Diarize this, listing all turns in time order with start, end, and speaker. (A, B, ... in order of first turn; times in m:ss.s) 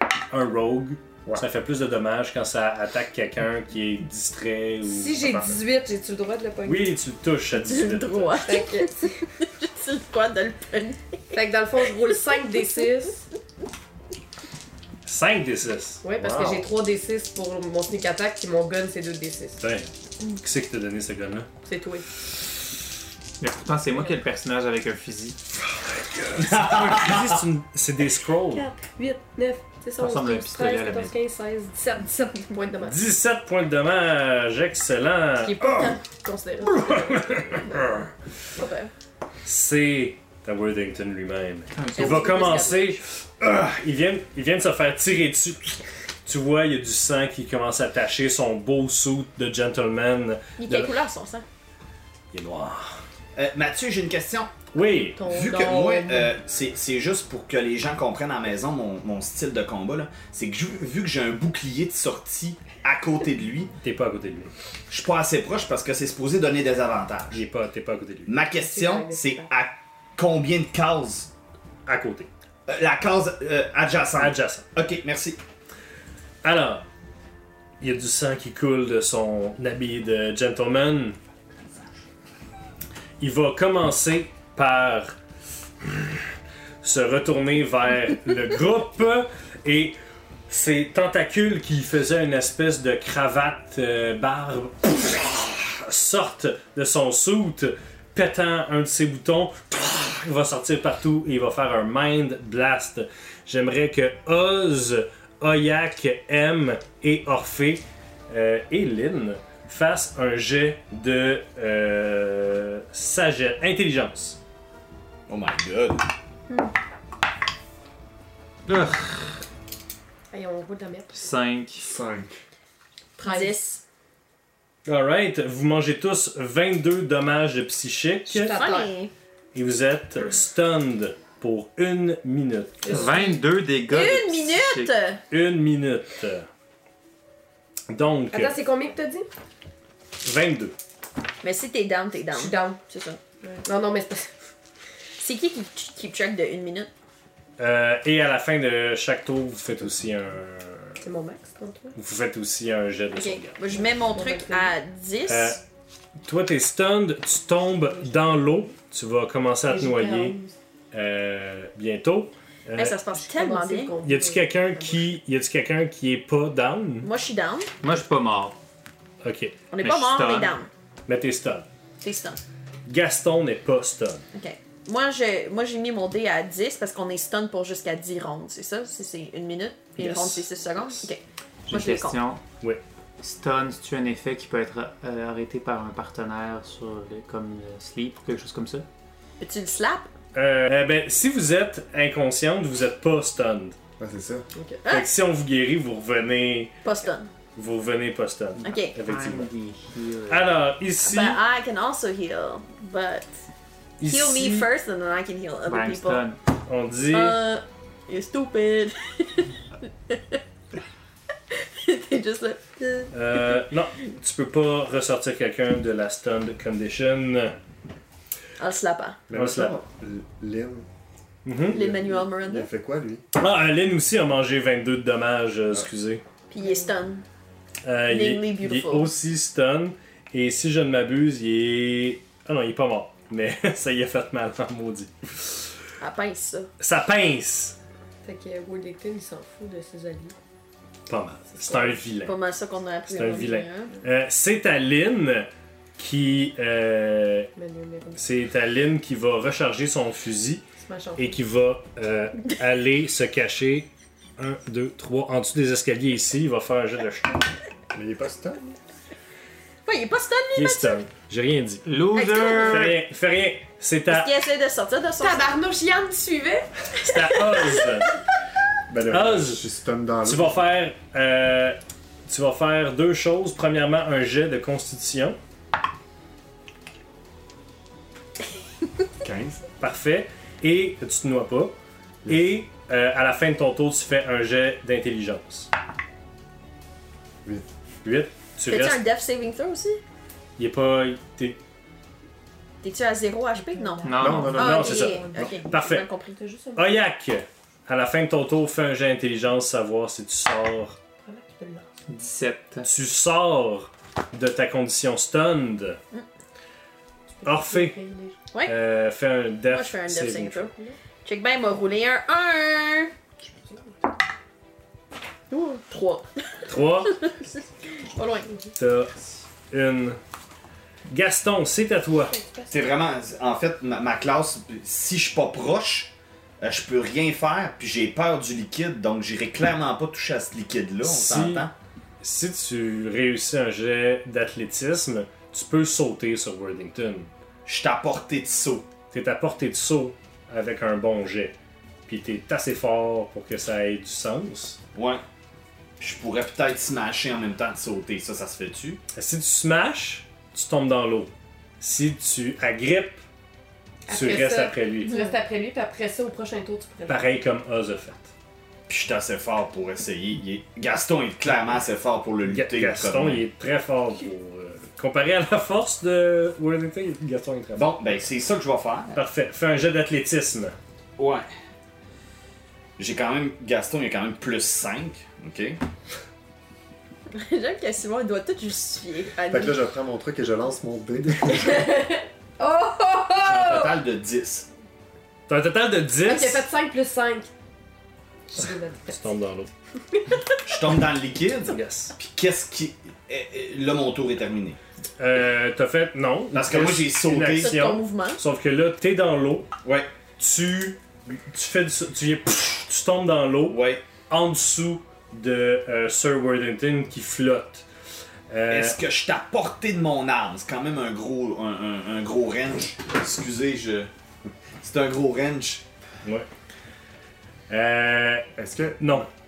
0:00.3-0:05.2 A
0:04.8-0:06.9 B
0:05.2-0:05.6 C
0:06.6-0:08.6 A
0:07.7-0:11.3 D
0:08.4-0:09.1 B
0:11.3-0:13.2 B
0:15.0-0:16.6 A
0:16.0-0:19.6 B
0:19.6-0:21.5 A
0:21.6-0:22.0 B
0:23.4-0:25.4 E
0:25.8-0:28.7 A
0:26.4-0:27.4 F
0:28.5-0:33.0 B
0:30.0-0:31.1 E
0:32.8-0:36.0 A
0:35.4-0:38.0 B
0:36.6-0:38.1 A
0:38.6-0:38.9 D
0:39.4-0:50.9 A
0:41.7-0:42.5 E
0:41.9-0:42.9 D
0:50.6-0:51.4 D
0:52.3-0:53.0 A
0:53.4-0:54.5 F
0:54.7-0:55.2 A
0:55.2-0:56.3 B
0:55.2-1:03.7 F
1:03.8-1:04.5 A
1:04.9-1:07.4 F
1:07.3-1:08.3 A
1:08.2-1:11.3 F
1:08.6-1:09.5 B
1:11.8-1:12.3 A
1:12.7-1:15.4 F
1:14.1-1:14.7 A
1:16.4-1:16.8 A
1:17.8-1:21.2 A
1:23.2-1:25.1 A
1:25.8-1:26.2 A
1:26.8-1:30.0 A
1:30.5-1:54.4 A
1:55.3-1:56.0 F
1:58.6-1:59.4 E
2:00.3-2:01.2 B
2:01.1-2:01.9 E
2:01.8-2:02.3 C
2:03.2-2:03.8 D
2:03.2-2:03.5 B
2:04.8-2:08.5 A
2:08.3-2:08.9 B
2:08.5-2:09.1 D
2:09.5-2:13.1 A
2:12.8-2:13.4 B
2:12.8-2:14.9 E
2:13.9-2:15.2 D
2:15.3-2:16.5 A
2:17.9-2:18.6 A
2:18.3-2:19.3 B
2:20.2-2:20.7 A
2:21.4-2:23.2 D
2:22.3-2:22.8 B
2:23.4-2:24.3 B
2:25.2-2:26.9 D
2:27.6-2:31.0 A
2:31.0-2:31.9 B
2:31.9-2:33.6 A
2:33.2-2:35.6 D
2:33.8-2:34.7 B
2:35.3-2:35.6 A
2:36.2-2:40.4 A
2:37.8-2:38.7 B
2:39.7-2:40.5 B
2:40.9-2:43.0 A
2:42.8-2:43.9 D
2:43.1-2:45.1 B
2:44.0-2:47.1 A
2:47.0-2:47.7 D
2:47.8-2:48.6 E
2:49.2-2:49.6 A
2:49.7-2:50.7 D
2:49.8-2:50.5 E
2:51.1-2:51.6 A
2:52.0-2:52.4 D
2:52.9-2:54.2 A
2:54.3-3:02.2 D
3:00.0-3:00.4 A
3:01.7-3:02.4 E
3:03.2-3:08.8 E
3:09.4-3:10.1 D
3:10.3-3:13.8 A
3:14.0-3:14.4 C
3:14.5-3:14.8 B
3:14.9-3:16.8 A
3:16.8-3:17.3 D
3:17.6-3:19.5 A
3:18.6-3:19.0 D
3:18.6-3:20.5 E
3:20.3-3:21.4 A
3:21.0-3:23.3 D
3:24.0-3:24.7 A
3:24.0-3:26.2 D
3:25.6-3:26.4 E
3:26.6-3:27.4 A
3:27.1-3:30.4 D
3:31.5-3:33.6 D
3:33.1-3:37.6 A
3:38.6-3:39.2 D
3:39.3-3:40.8 C
3:39.3-3:39.8 A
3:41.4-3:41.8 A
3:41.7-3:43.2 C
3:41.7-3:42.7 D
3:43.3-3:46.2 A
3:46.5-3:47.2 D
3:46.6-3:46.9 B
3:47.8-3:55.7 A
3:48.1-3:49.1 D
3:56.0-3:56.7 D
3:56.8-3:57.8 A
3:58.2-4:00.3 B
4:01.1-4:02.3 A
4:01.6-4:02.0 B
4:02.2-4:03.9 D
4:03.1-4:07.5 A
4:07.6-4:08.2 B
4:08.2-4:10.6 A
4:10.8-4:11.4 B
4:11.2-4:17.5 A
4:17.9-4:18.8 C
4:19.8-4:21.0 D
4:20.6-4:21.9 A
4:21.8-4:23.0 E
4:22.1-4:22.9 D
4:22.6-4:24.3 A
4:24.1-4:25.5 D
4:25.2-4:26.7 B
4:27.0-4:28.1 A
4:28.9-4:30.6 C
4:29.1-4:29.6 A
4:30.2-4:35.4 A
4:39.2-4:39.6 C
4:39.8-4:41.7 A
4:42.2-4:42.6 C
4:42.3-4:45.7 A
4:48.0-4:49.0 A
4:48.7-4:50.0 D
4:50.6-4:51.6 A
4:52.8-4:56.4 D
4:53.5-4:55.7 B
4:54.0-4:54.6 E
4:54.2-4:54.8 C
4:54.6-4:56.0 A
4:56.4-4:56.8 B
4:56.8-5:01.0 A
5:01.2-5:01.9 B
5:02.1-5:02.9 E
5:02.8-5:06.0 A
5:07.4-5:08.4 B
5:07.4-5:08.0 A
5:08.6-5:10.7 A
5:09.7-5:10.7 D
5:10.7-5:11.0 B
5:11.2-5:13.1 D
5:15.5-5:16.3 D
5:16.7-5:17.2 A
5:18.0-5:18.5 D
5:18.8-5:19.2 A
5:19.7-5:20.2 A
5:21.1-5:22.4 A
5:22.4-5:22.7 B
5:22.7-5:31.7 F
5:31.0-5:31.7 A
5:32.2-5:37.3 A
5:37.6-5:38.9 F
5:39.1-5:41.5 A
5:42.1-5:44.8 A
5:44.9-5:45.2 F
5:46.0-5:49.0 F
5:49.1-5:53.2 A
5:54.1-5:57.3 B
5:54.1-5:55.1 A
5:55.1-5:55.3 D
5:57.1-5:58.3 A
5:58.9-6:03.4 F
6:02.5-6:07.9 A
6:07.7-6:09.1 F
6:09.1-6:10.8 A
6:11.2-6:11.4 F
6:13.0-6:15.8 F
6:17.3-6:19.8 D
6:19.5-6:21.8 C
6:21.4-6:24.0 B
6:23.4-6:24.7 F
6:25.5-6:26.6 A
6:26.2-6:27.5 B
6:28.5-6:29.3 B
6:29.1-6:29.7 A
6:30.1-6:30.5 B
6:30.6-6:34.8 F
6:31.7-6:32.1 A
6:35.2-6:39.7 A
6:36.5-6:37.8 F
6:37.6-6:38.4 D
6:39.8-6:40.1 F
6:40.4-6:47.8 A
6:43.7-6:44.0 F
6:48.5-6:49.0 A
6:48.7-6:54.1 F
6:54.8-6:55.8 F
6:57.7-6:58.5 A
6:58.6-6:59.2 C
6:59.0-6:59.3 A